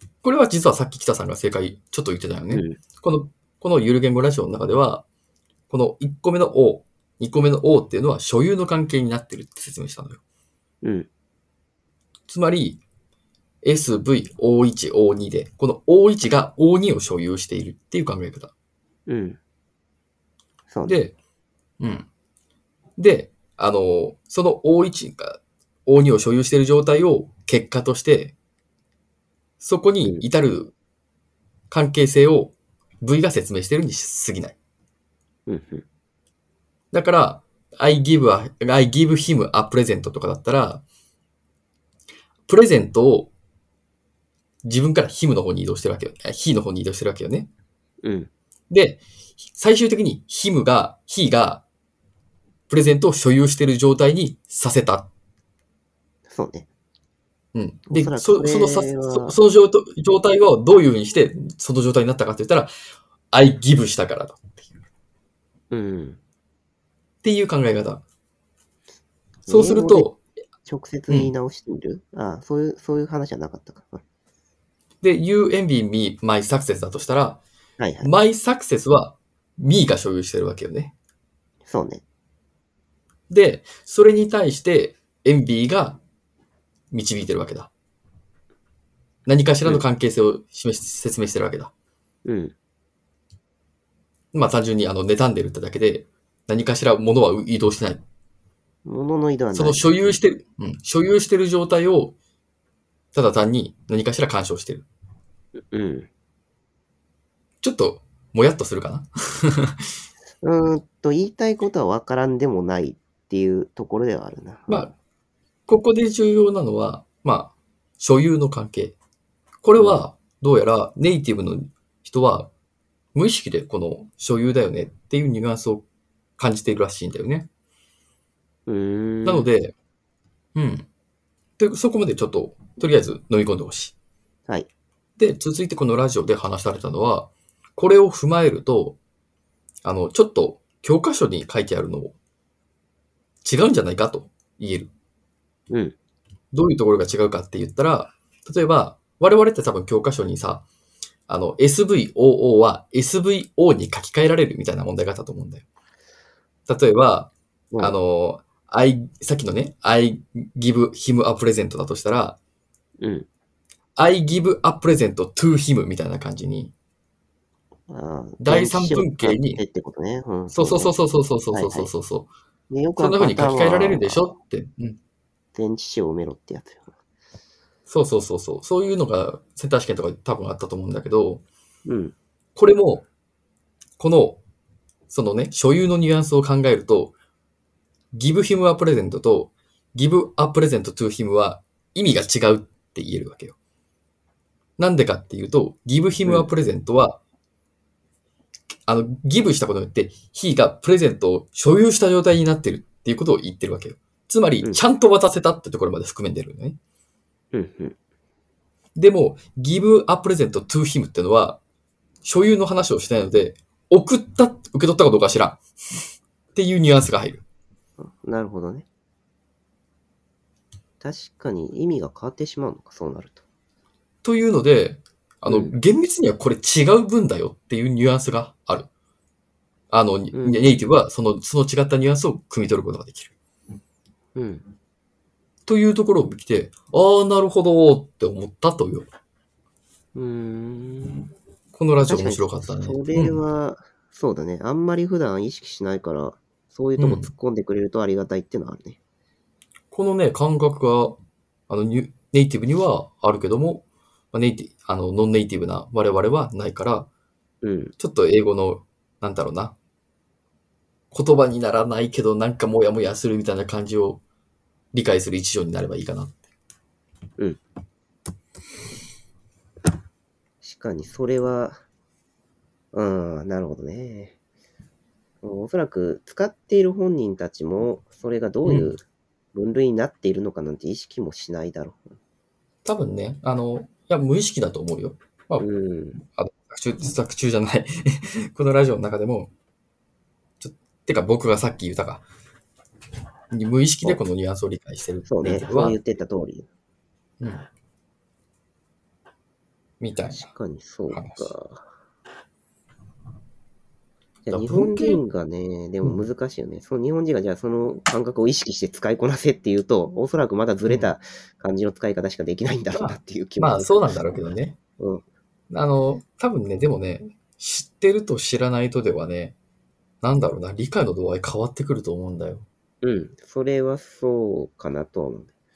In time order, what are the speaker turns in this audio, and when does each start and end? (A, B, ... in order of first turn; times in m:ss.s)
0:00.2-0:05.0 A
0:02.5-0:02.8 B
0:05.7-0:10.2 A
0:12.3-0:12.8 A
0:13.6-0:18.5 A
0:19.1-0:19.4 B
0:20.7-0:21.0 B
0:20.8-0:21.2 A
0:21.8-0:22.1 A
0:23.0-0:28.4 A
0:29.6-0:30.7 A
0:31.7-0:34.6 A
0:35.5-0:35.8 B
0:36.9-0:40.8 A
0:42.5-0:43.3 A
0:44.6-0:47.5 A
0:48.0-0:48.3 B
0:48.7-0:51.6 A
0:52.7-0:55.1 A
0:56.3-0:56.7 B
0:57.5-1:02.7 A
0:57.9-0:59.4 B
1:03.3-1:04.6 A
1:05.7-1:06.2 B
1:07.2-1:08.0 A
1:09.5-1:10.1 B
1:09.5-1:10.2 A
1:10.6-1:14.0 B
1:15.0-1:17.4 A
1:17.8-1:18.1 B
1:18.0-1:20.9 A
1:21.7-1:22.0 B
1:23.3-1:26.0 A
1:26.9-1:27.7 A
1:29.3-1:31.7 A
1:32.2-1:32.5 B
1:34.3-1:38.0 A
1:38.8-1:40.0 B
1:39.5-1:42.2 A
1:43.1-1:44.9 A
1:45.7-1:46.1 B
1:47.6-1:49.8 A
1:50.4-1:54.9 B
1:54.7-1:55.0 A
1:55.7-1:59.0 A
1:59.6-2:02.5 A
1:59.8-2:00.0 B
2:03.2-2:05.8 A
2:06.4-2:07.5 A
2:08.7-2:09.5 B
2:09.2-2:09.8 A
2:10.6-2:10.9 A
2:11.6-2:13.9 A
2:15.2-2:19.0 A
2:19.8-2:22.2 A
2:23.4-2:24.9 A
2:26.5-2:30.6 A
2:31.3-2:35.6 A
2:36.7-2:42.4 A
2:43.0-2:43.3 B
2:44.0-2:46.7 A
2:47.9-2:51.0 B
2:48.4-2:49.6 A
2:50.5-2:52.3 A
2:51.5-2:51.9 B
2:52.7-2:54.3 B
2:53.0-2:55.0 A
2:55.5-2:56.9 B
2:57.9-3:01.4 A
3:01.9-3:02.2 B
3:02.6-3:03.1 A
3:04.0-3:04.4 A
3:05.1-3:07.1 A
3:08.1-3:13.6 A
3:14.8-3:17.2 A
3:18.9-3:26.8 A
3:27.5-3:28.0 B
3:29.0-3:31.6 A
3:32.2-3:35.6 A
3:36.6-3:37.4 A
3:38.0-3:38.9 B
3:41.0-3:43.4 B
3:44.2-3:48.9 A
3:45.5-3:45.7 B
3:49.9-3:53.3 A
3:50.3-3:50.7 B
3:54.4-3:54.7 B
3:55.7-3:59.1 A
4:00.2-4:01.3 B
4:01.7-4:03.4 A
4:02.1-4:09.0 B
4:07.0-4:07.3 A
4:09.9-4:11.2 A
4:11.7-4:17.1 A
4:17.6-4:17.9 B
4:18.0-4:19.8 A
4:21.1-4:24.2 A
4:24.9-4:26.4 A
4:30.6-4:31.8 B
4:32.9-4:34.3 B
4:35.4-4:39.0 B
4:38.7-4:38.9 A
4:39.6-4:42.1 B
4:42.8-4:45.7 A
4:45.6-4:46.2 B
4:46.3-4:49.5 A
4:50.6-4:52.2 A
4:53.5-4:56.0 A
4:55.3-4:56.7 B
4:57.4-4:57.7 A
5:00.0-5:00.5 A
5:00.4-5:01.8 B
5:01.1-5:01.5 A
5:04.5-5:14.0 B
5:04.5-5:05.2 A
5:10.9-5:11.1 A
5:12.9-5:14.8 A
5:15.7-5:19.6 A
5:20.2-5:22.7 A
5:23.0-5:25.5 B